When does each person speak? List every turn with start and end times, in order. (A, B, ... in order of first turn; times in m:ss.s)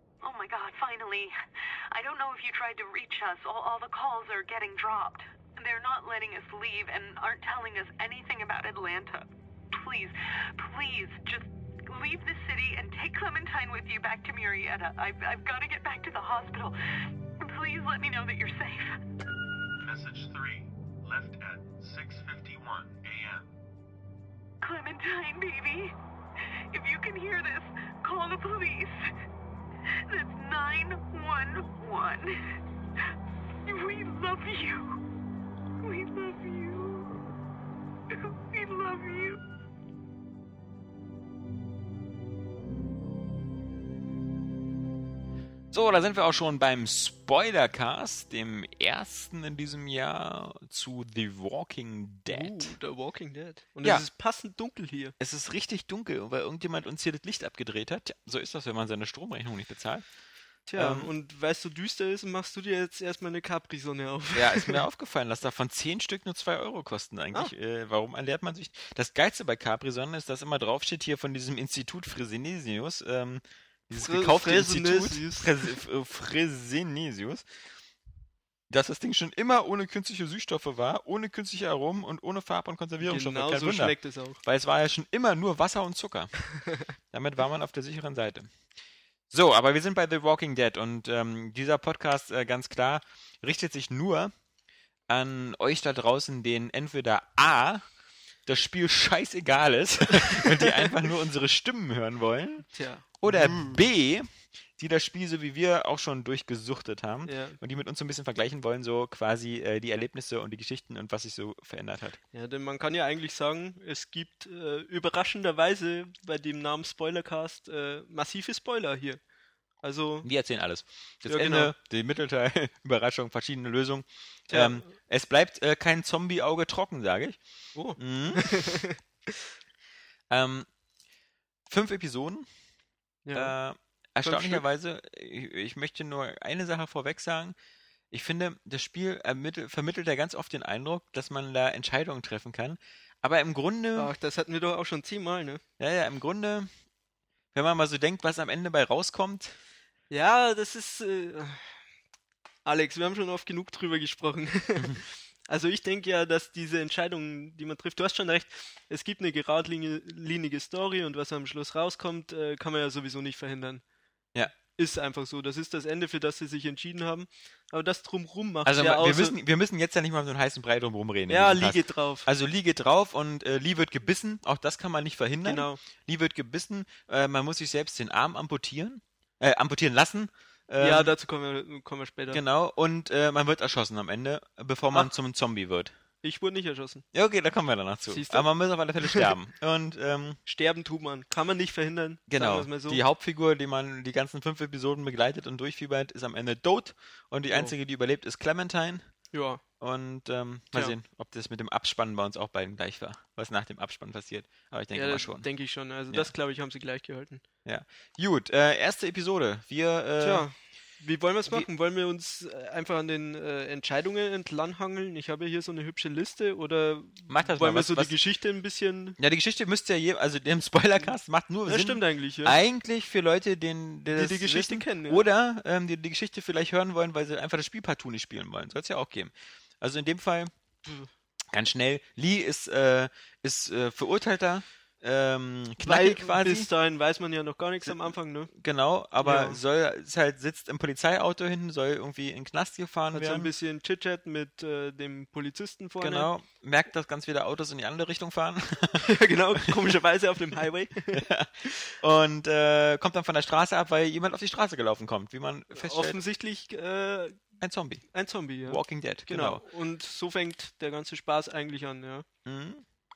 0:00.2-0:01.3 A
0:01.9-0:16.8 A
0:17.4-0:19.0 A
0:19.8-0:23.5 B
0:24.6-0:25.9 A
0:26.7-0:29.1 A
0:30.0-0:32.6 A
0:33.6-0:35.0 A
0:35.8-0:37.1 A
0:38.1-0:39.4 A
0:45.7-0:52.7 C
0:52.3-0:55.1 D
0:55.2-1:00.0 C
1:00.7-1:04.8 D
1:00.8-1:01.1 C
1:04.3-1:17.4 C
1:14.0-1:15.7 D
1:18.7-1:26.4 C
1:23.0-1:24.4 D
1:27.1-1:28.5 C
1:29.3-1:34.3 C
1:35.1-1:37.8 C
1:38.4-1:42.7 C
1:42.7-1:43.8 D
1:43.2-1:52.2 C
1:47.2-1:47.6 D
1:52.3-1:59.2 D
1:59.8-2:00.3 D
2:00.2-2:07.4 C
2:01.2-2:01.7 D
2:04.5-2:04.9 D
2:07.7-2:09.0 D
2:08.0-2:08.8 C
2:10.3-2:10.7 C
2:11.7-2:12.5 C
2:13.2-2:13.5 D
2:13.3-2:17.6 C
2:14.2-2:14.6 D
2:18.1-2:24.1 C
2:24.0-2:25.6 D
2:25.8-2:26.7 C
2:27.5-2:29.6 C
2:30.1-2:31.6 D
2:32.6-2:43.8 D
2:44.6-2:49.4 D
2:48.6-3:01.1 C
2:51.3-2:52.3 D
2:55.4-2:55.8 D
3:00.8-3:02.4 D
3:02.3-3:05.9 C
3:06.2-3:07.0 D
3:07.1-3:10.4 C
3:08.1-3:08.5 D
3:09.0-3:09.3 D
3:10.4-3:13.0 D
3:12.3-3:19.1 C
3:19.3-3:19.6 D
3:19.8-3:25.5 C
3:24.9-3:27.4 D
3:27.6-3:30.5 C
3:30.2-3:39.2 D
3:37.3-3:38.1 C
3:39.2-3:50.5 C
3:41.6-3:42.6 D
3:44.1-3:45.2 D
3:51.5-3:56.7 C
3:55.8-3:58.5 D
3:57.8-4:03.5 C
3:59.2-3:59.6 D
4:03.1-4:06.3 D
4:06.0-4:09.1 C
4:09.0-4:11.9 D
4:11.1-4:16.2 C
4:15.7-4:17.4 D
4:17.6-4:18.0 C
4:18.1-4:22.2 D
4:18.6-4:19.6 C
4:22.4-4:22.8 C